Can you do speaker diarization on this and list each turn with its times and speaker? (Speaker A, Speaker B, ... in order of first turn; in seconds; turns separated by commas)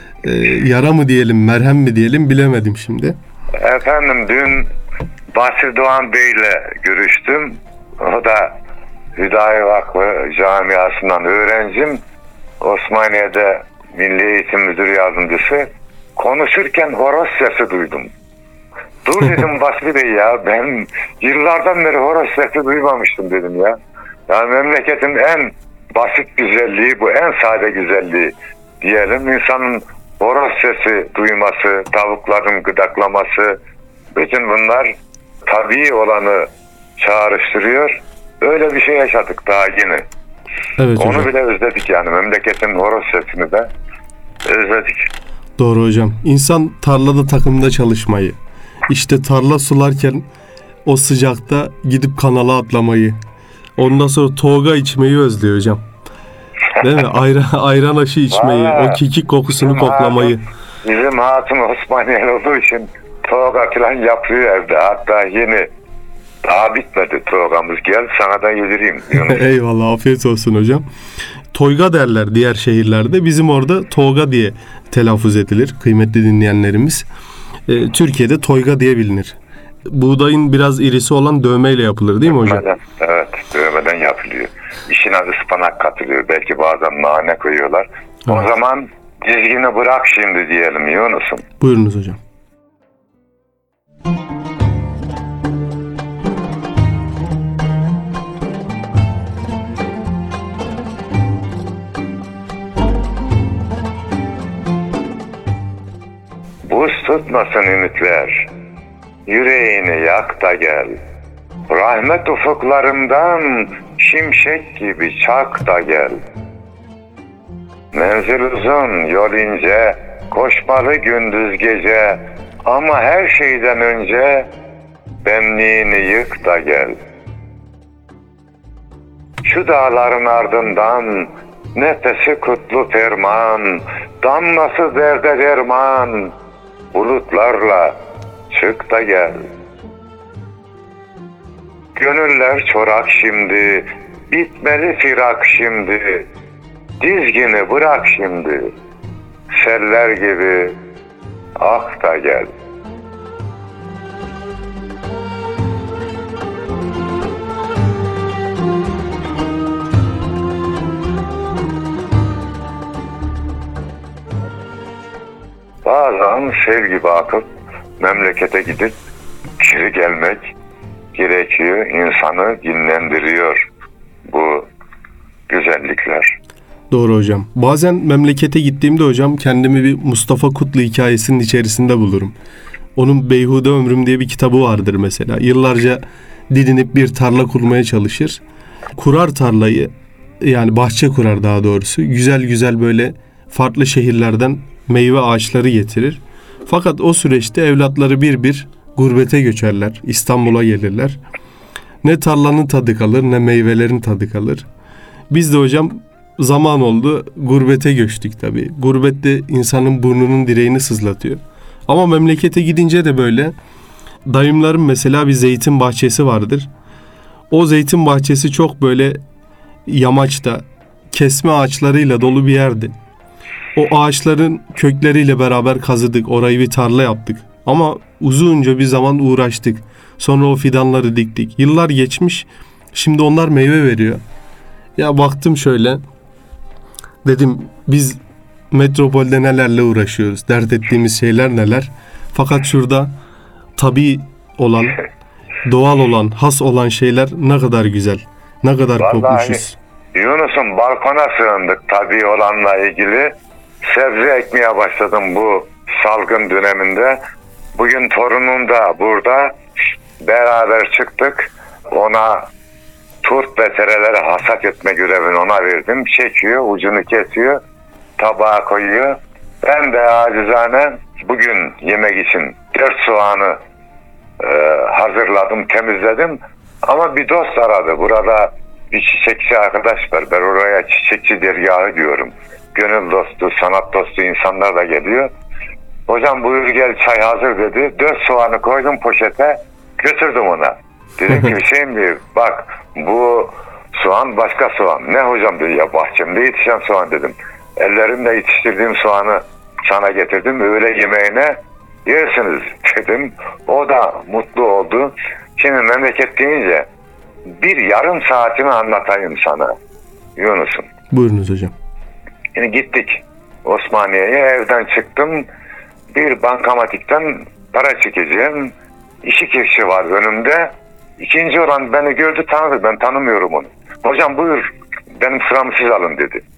Speaker A: 0.2-3.1, Speaker B: 3.6-4.7, Speaker B: 5.3-8.6, Speaker B: 9.2-12.0, Speaker B: 12.6-18.1, Speaker B: 19.0-23.8, Speaker B: 24.3-33.6, Speaker B: 34.1-35.0, Speaker B: 35.5-40.0, Speaker A: 40.8-41.3, Speaker B: 41.0-43.7, Speaker B: 44.5-45.1, Speaker A: 45.6-48.4, Speaker A: 48.9-50.2, Speaker A: 50.9-53.1, Speaker A: 53.8-55.8, Speaker A: 56.8-60.4, Speaker B: 58.3-59.0, Speaker B: 59.6-65.7, Speaker B: 66.4-69.4, Speaker A: 69.1-70.8, Speaker A: 71.5-77.0, Speaker A: 77.7-82.7, Speaker B: 82.3-91.5, Speaker A: 91.6-92.2, Speaker B: 106.7-108.5, Speaker B: 109.3-111.0, Speaker B: 111.7-116.2, Speaker B: 117.9-124.5, Speaker B: 125.2-127.0, Speaker B: 129.4-136.3, Speaker B: 136.9-137.9, Speaker B: 138.5-139.4, Speaker B: 141.9-146.3, Speaker B: 147.0-148.7, Speaker B: 149.5-150.8, Speaker B: 151.6-152.5, Speaker B: 165.8-167.5, Speaker B: 168.0-168.9, Speaker B: 169.6-170.5, Speaker B: 171.1-173.7, Speaker B: 174.3-174.7, Speaker B: 175.5-176.3, Speaker A: 176.9-182.3, Speaker A: 182.9-188.4, Speaker A: 189.0-201.2, Speaker A: 202.0-204.7, Speaker A: 205.3-213.5, Speaker A: 214.2-216.7, Speaker A: 217.5-219.2, Speaker A: 219.9-222.9, Speaker A: 223.7-234.2, Speaker A: 235.0-236.0, Speaker A: 237.2-238.2, Speaker A: 238.7-243.1, Speaker A: 243.8-245.0, Speaker A: 245.6-249.8, Speaker B: 249.0-249.6, Speaker B: 250.1-253.3, Speaker B: 253.8-257.2, Speaker B: 257.8-259.5, Speaker B: 260.2-262.5, Speaker B: 263.2-267.6, Speaker B: 268.2-273.6, Speaker B: 274.4-285.3, Speaker B: 286.1-306.9, Speaker B: 307.5-309.7, Speaker B: 310.4-310.9, Speaker A: 311.1-311.7, Speaker B: 312.5-315.5, Speaker B: 316.1-326.4